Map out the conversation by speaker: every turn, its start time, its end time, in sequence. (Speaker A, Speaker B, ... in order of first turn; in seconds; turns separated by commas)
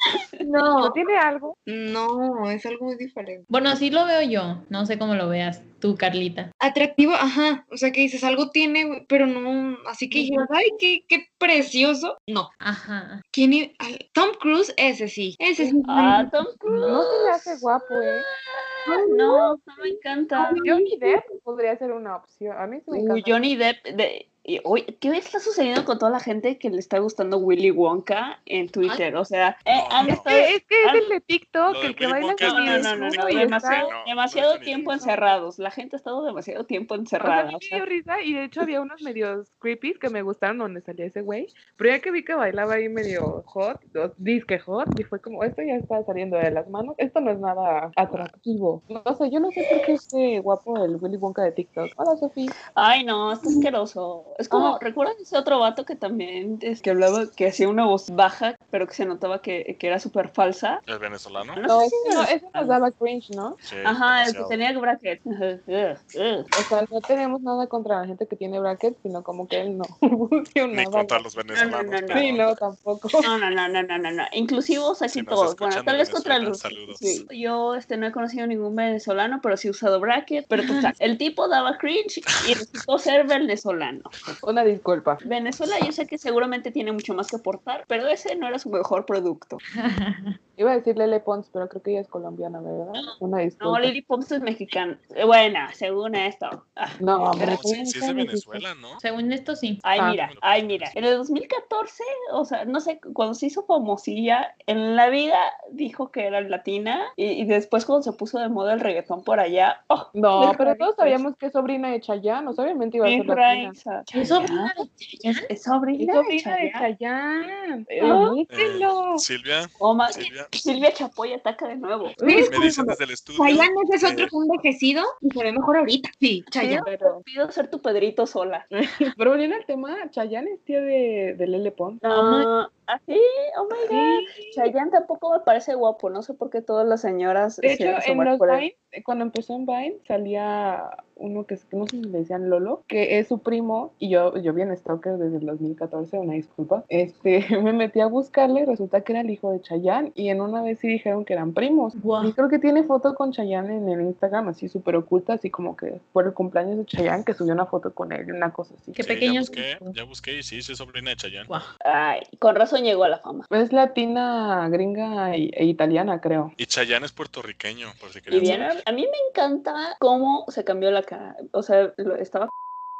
Speaker A: 0.4-1.0, Speaker B: 0.8-1.6, Speaker A: 1.7-3.4, Speaker C: 3.5-6.5, Speaker A: 6.6-12.5, Speaker B: 10.1-10.4, Speaker C: 12.6-13.2, Speaker A: 13.3-16.4, Speaker D: 15.8-20.6, Speaker B: 16.8-18.2, Speaker A: 18.9-19.6, Speaker A: 20.4-21.2, Speaker B: 20.6-23.4, Speaker D: 22.9-31.1, Speaker E: 29.7-30.2, Speaker B: 30.1-33.9, Speaker E: 31.7-35.1, Speaker D: 32.4-37.8, Speaker B: 37.2-52.5, Speaker D: 52.7-60.8, Speaker B: 54.5-54.8, Speaker E: 60.9-61.6, Speaker D: 61.5-62.3, Speaker B: 61.7-63.6, Speaker E: 63.6-64.6, Speaker D: 63.8-66.5, Speaker B: 66.5-71.4, Speaker E: 70.7-72.5, Speaker D: 71.5-72.4, Speaker B: 72.1-73.3, Speaker D: 73.2-84.1, Speaker E: 75.1-77.2, Speaker C: 80.6-80.9, Speaker B: 84.4-85.2, Speaker D: 85.2-89.6, Speaker C: 89.7-90.4, Speaker B: 90.6-93.9, Speaker D: 93.6-97.0, Speaker B: 97.0-98.6, Speaker E: 97.2-99.0, Speaker C: 99.0-99.8, Speaker D: 99.8-111.2, Speaker E: 100.2-101.0, Speaker B: 110.1-113.7, Speaker D: 113.0-116.8, Speaker C: 114.1-115.5, Speaker B: 115.9-119.2, Speaker D: 118.0-118.4, Speaker E: 118.5-120.5, Speaker D: 119.8-122.2, Speaker B: 122.2-122.6, Speaker A: 122.2-126.8, Speaker E: 122.5-124.3, Speaker D: 126.5-128.7, Speaker B: 126.7-127.2, Speaker B: 129.2-132.0, Speaker D: 132.0-138.6, Speaker C: 132.1-132.5, Speaker B: 133.9-134.7, Speaker B: 137.6-159.5, Speaker C: 151.9-152.3, Speaker C: 158.9-159.9, Speaker E: 159.0-161.5, Speaker D: 161.8-163.5, Speaker B: 163.5-166.5, Speaker E: 166.6-168.6, Speaker D: 168.3-172.5